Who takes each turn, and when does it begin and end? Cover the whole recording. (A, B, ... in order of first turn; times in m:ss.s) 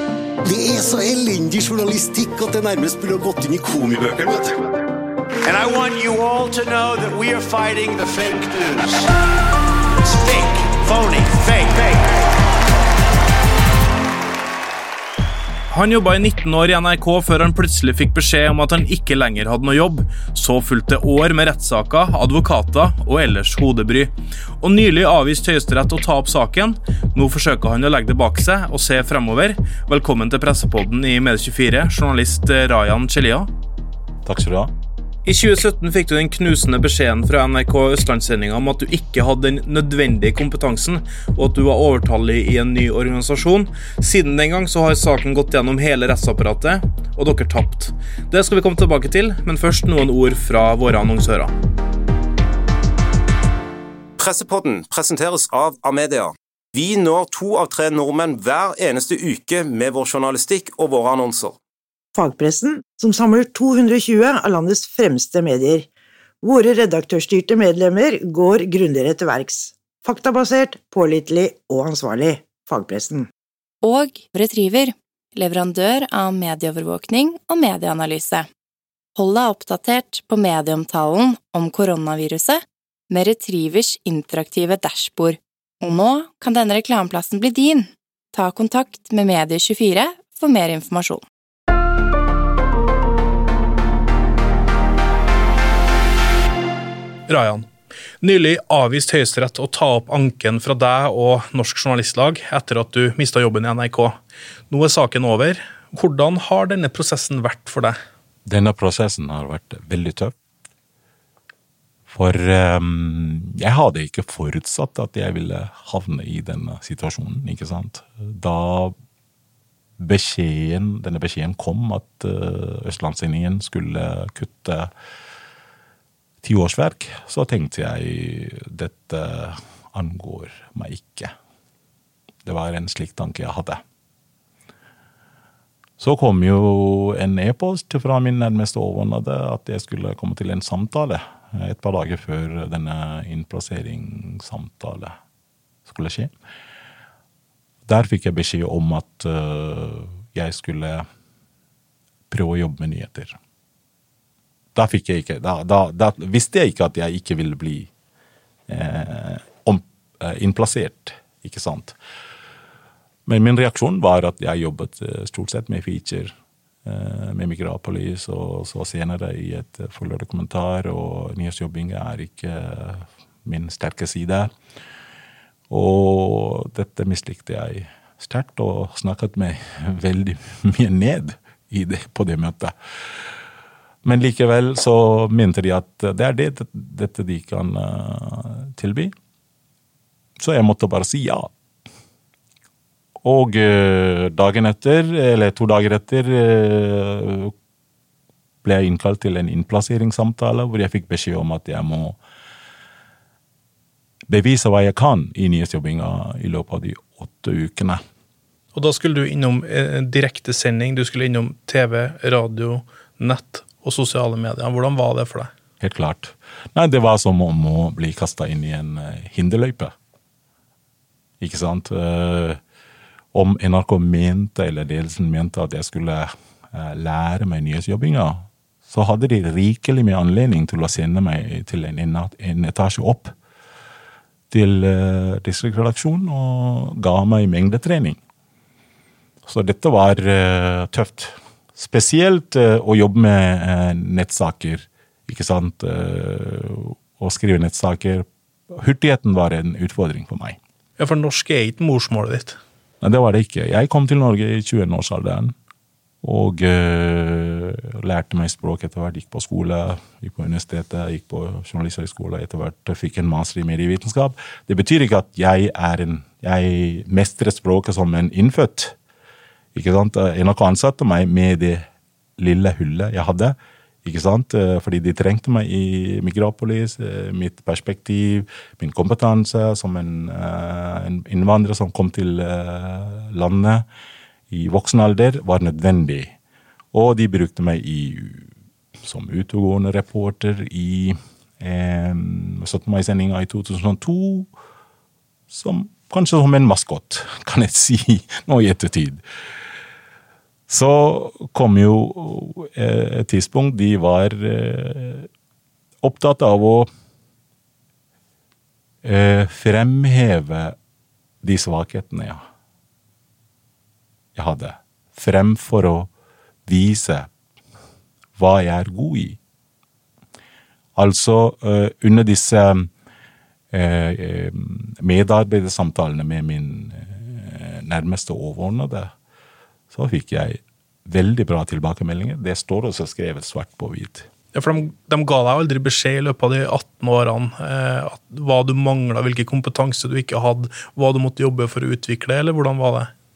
0:00.4-0:04.7 A
0:05.4-0:09.1 B
0:10.0-0:12.2 B
0:15.7-0:33.5 C
0:34.2-0:34.7 D
0:35.2-0:51.5 C
0:54.2-1:01.6 E
1:02.1-1:05.9 F
1:06.4-1:13.3 F
1:13.8-1:18.5 G
1:19.2-1:31.2 G
1:37.3-1:44.2 C
1:44.7-1:48.0 C
1:48.4-1:50.3 D
1:52.1-1:58.9 D
2:00.0-2:04.9 D
2:06.4-2:11.3 D
2:12.4-2:13.8 D
2:16.0-2:25.2 D
2:25.8-2:26.3 D
2:27.9-2:31.0 D
2:32.3-2:33.4 D
2:34.7-2:37.9 D
2:38.7-2:42.0 D
2:43.2-2:46.3 D
2:46.8-2:54.5 D
2:55.7-3:02.7 D
3:04.0-3:09.1 D
3:10.4-3:11.5 D
3:13.2-3:17.5 D
3:18.6-3:22.2 D
3:24.3-3:28.0 D
3:28.7-3:35.5 C
3:35.8-3:39.9 D
3:41.4-3:42.6 D
3:43.3-3:53.3 D
3:54.5-3:58.2 D
3:59.4-4:10.6 D
4:11.0-4:12.6 C
4:13.0-4:15.5 D
4:16.2-4:29.0 D
4:29.7-4:31.8 D
4:32.4-4:43.8 D
4:44.5-4:46.3 D
4:46.9-4:48.5 D
4:49.0-4:54.5 D
4:55.5-4:59.2 D
5:00.7-5:05.3 D
5:06.0-5:06.9 D
5:09.0-5:10.8 D
5:11.4-5:12.4 D
5:14.4-5:16.1 D
5:16.6-5:17.3 D
5:18.4-5:19.4 D
5:21.0-5:22.9 D
5:23.7-5:29.1 D
5:29.9-5:34.3 D
5:34.5-5:43.1 C